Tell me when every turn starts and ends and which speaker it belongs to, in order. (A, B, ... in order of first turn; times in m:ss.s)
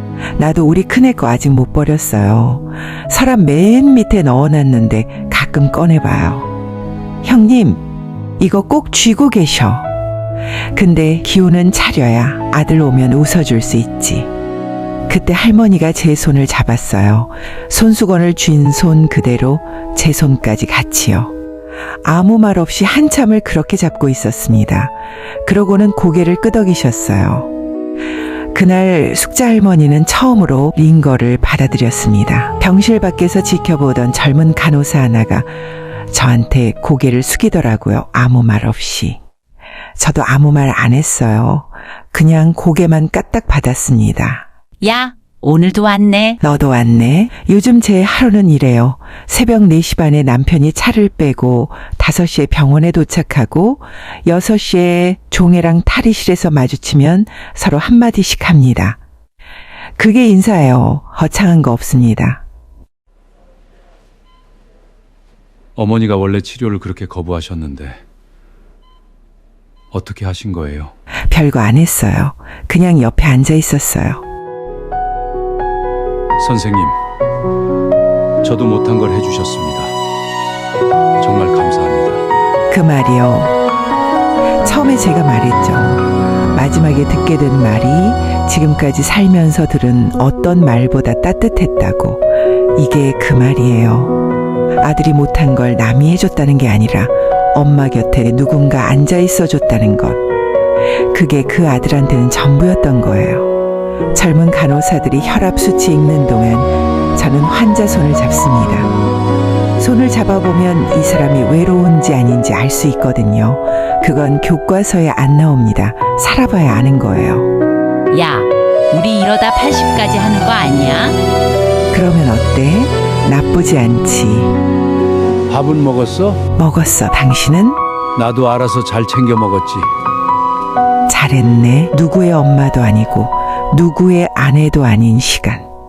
0:00.4-0:06.5 A
0:07.2-0:07.8 A
0:08.4-0:09.9 A
0:10.7-0:14.3 A
0:15.1-0:21.3 A
0:22.0-0:27.5 A
0:28.5-0:35.5 A
0:36.1-0:39.2 A
0:40.0-0:44.5 A
0:44.8-0:46.4 B
0:46.4-0:59.0 A
1:00.0-1:02.4 A
1:05.8-1:08.0 C
1:09.9-1:10.9 C
1:11.3-1:14.2 A
1:16.4-1:17.0 C
1:18.4-1:19.9 C
1:21.2-1:22.2 C
1:22.7-1:23.6 A
1:24.6-1:32.2 A
1:32.8-1:34.2 A
1:34.8-1:40.2 A
1:41.1-1:43.5 A
1:44.1-1:48.9 A
1:49.8-1:57.5 A
1:58.1-2:01.2 B
2:01.9-2:04.6 A
2:05.5-2:06.4 C
2:06.6-2:07.8 A
2:08.2-2:09.9 C
2:11.1-2:15.7 A